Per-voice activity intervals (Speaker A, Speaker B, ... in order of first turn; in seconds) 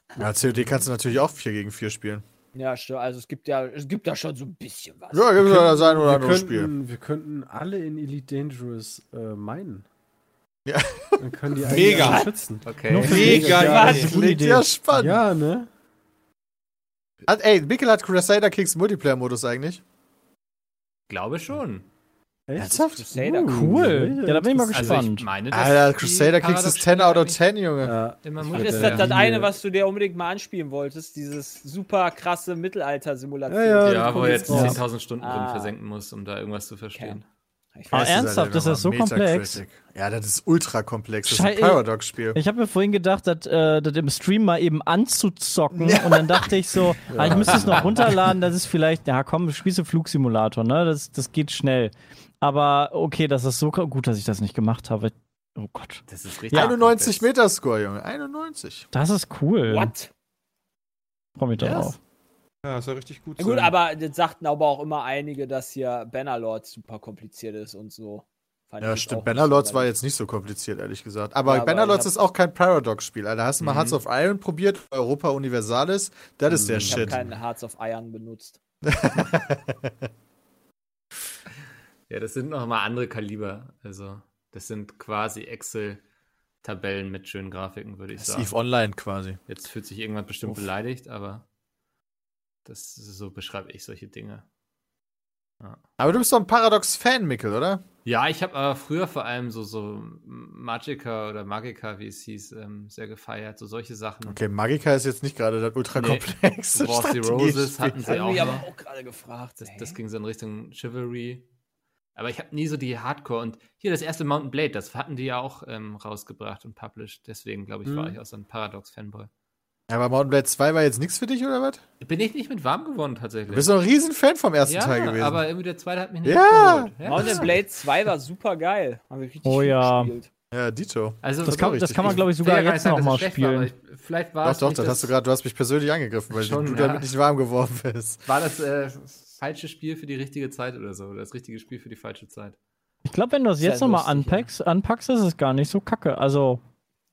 Speaker A: 0.2-2.2, 5.1-6.7, 10.7-11.2, 13.8-15.2, 17.3-19.8, 22.6-23.1, 25.5-28.0, 37.9-42.4, 45.7-47.9, 56.5-58.9, 61.6-61.9, 68.8-77.2, 78.9-79.9, 88.2-89.4, 96.0-97.8, 104.3-108.4, 119.9-121.8, 123.5-125.4, 126.2-127.5, 130.5-132.2, 134.4-138.2
Speaker B: 2.5-5.4, 12.0-12.3, 13.2-14.1, 22.6-23.8, 28.5-35.7, 37.0-37.2, 37.8-38.3, 59.7-60.1, 63.4-69.9, 71.5-72.1, 76.8-78.6, 108.0-110.0, 127.0-130.3, 143.6-144.5
Speaker C: 5.4-9.9, 11.2-14.1, 14.9-15.7, 22.5-25.1, 27.8-29.5, 33.5-34.9, 47.1-47.9, 76.5-77.2
Speaker D: 11.7-12.3, 13.0-14.0, 62.6-63.7
Speaker E: 12.6-13.4, 21.1-21.9, 24.7-27.6, 28.2-29.1, 33.8-37.2, 56.1-57.3, 73.6-74.0, 82.1-86.0, 86.6-88.5, 89.5-91.4, 92.7-94.5, 98.0-104.4, 105.9-108.7, 109.6-111.5, 112.2-119.3, 122.0-123.7, 124.7-127.5, 131.2-135.2, 136.3-137.1, 138.3-142.6
Speaker F: 12.9-14.7, 23.5-25.3, 37.9-39.6, 41.3-56.0, 58.9-59.9, 61.4-62.0, 129.4-130.1, 131.4-133.7, 143.1-146.6